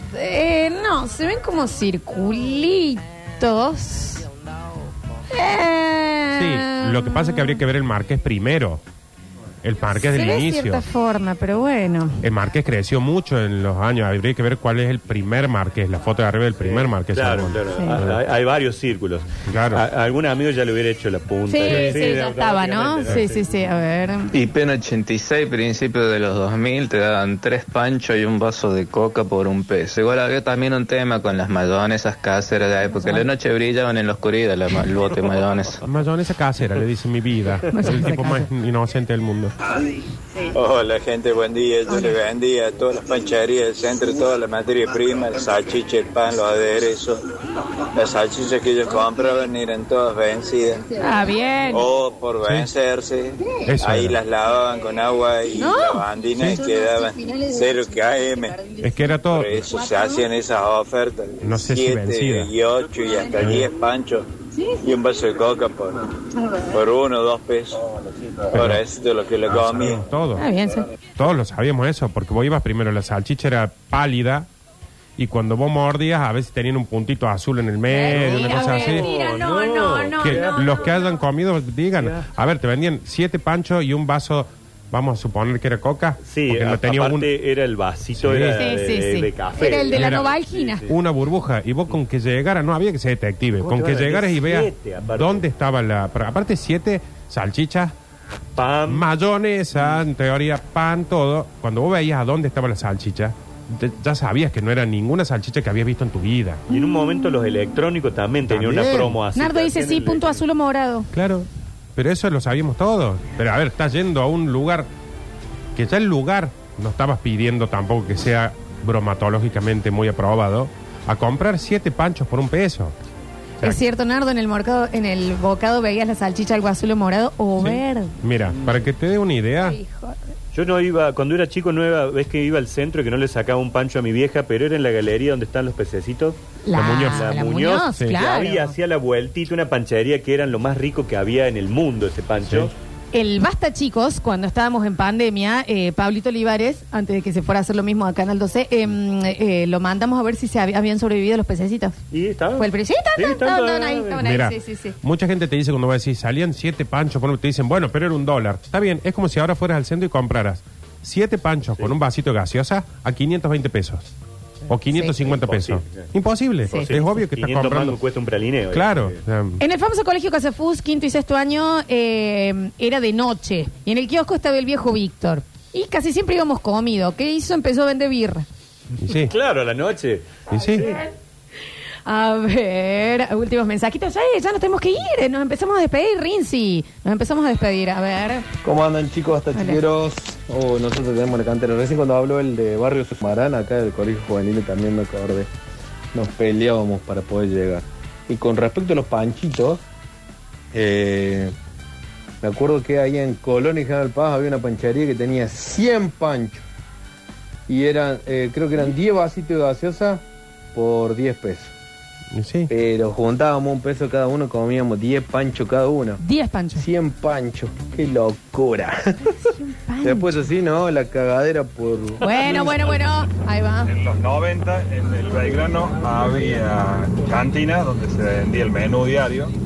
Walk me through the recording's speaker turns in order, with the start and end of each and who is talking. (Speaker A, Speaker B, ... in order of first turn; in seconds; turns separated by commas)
Speaker A: 0.1-4.2, Speaker A: 5.3-7.6, Speaker B: 6.3-8.8, Speaker B: 9.6-10.8, Speaker A: 10.0-12.2, Speaker B: 12.2-18.2, Speaker C: 16.6-23.4, Speaker B: 19.5-19.8, Speaker A: 21.5-24.4, Speaker B: 21.7-21.9, Speaker D: 24.3-35.8, Speaker A: 32.9-33.3, Speaker B: 35.8-39.5, Speaker A: 37.7-38.5, Speaker E: 40.5-47.2, Speaker E: 48.0-50.8, Speaker A: 51.0-51.8, Speaker E: 51.7-58.6, Speaker B: 52.4-52.7, Speaker B: 53.7-54.2, Speaker A: 55.5-56.0, Speaker B: 58.8-59.6, Speaker E: 59.3-64.3, Speaker B: 61.4-62.5, Speaker B: 63.4-63.7, Speaker E: 64.8-66.0, Speaker E: 66.7-67.8, Speaker B: 68.5-68.8, Speaker E: 68.5-70.0, Speaker B: 69.4-70.4, Speaker A: 70.3-70.8, Speaker B: 71.2-74.5, Speaker B: 75.2-79.1, Speaker A: 77.9-81.2, Speaker C: 78.1-81.0, Speaker B: 80.2-87.3, Speaker C: 82.0-82.3, Speaker C: 86.2-90.9, Speaker B: 88.2-88.7, Speaker A: 88.5-90.8, Speaker B: 89.9-90.3, Speaker B: 90.9-97.9, Speaker C: 93.6-95.5, Speaker C: 98.5-99.0, Speaker B: 98.9-106.6, Speaker C: 106.7-110.4, Speaker A: 106.7-107.3, Speaker B: 108.5-109.2, Speaker A: 109.3-111.1, Speaker B: 111.1-114.9, Speaker B: 115.7-122.9, Speaker A: 123.6-128.1, Speaker B: 127.6-129.8, Speaker A: 129.6-130.2, Speaker C: 130.5-136.4, Speaker A: 136.6-138.7, Speaker B: 136.7-137.3, Speaker C: 137.0-142.7, Speaker B: 137.9-138.2, Speaker B: 142.4-142.7, Speaker A: 143.1-152.0, Speaker C: 152.1-154.2, Speaker A: 152.6-154.9, Speaker B: 154.2-164.1, Speaker B: 164.7-168.0, Speaker C: 165.2-166.1, Speaker C: 166.7-169.2, Speaker B: 168.7-169.6, Speaker A: 169.6-178.4, Speaker B: 179.0-179.3, Speaker C: 179.0-181.0, Speaker B: 180.5-180.9, Speaker A: 180.7-181.0, Speaker A: 182.0-188.4, Speaker F: 188.6-195.5, Speaker A: 189.5-189.8, Speaker F: 196.1-199.8, Speaker F: 200.7-201.5, Speaker F: 202.4-206.6, Speaker F: 207.7-210.2, Speaker F: 210.7-211.7, Speaker B: 212.3-212.7, Speaker F: 212.7-216.2, Speaker A: 216.2-216.8, Speaker F: 216.8-219.0, Speaker A: 219.3-220.3, Speaker F: 220.0-222.9, Speaker A: 222.2-223.9, Speaker G: 223.9-229.5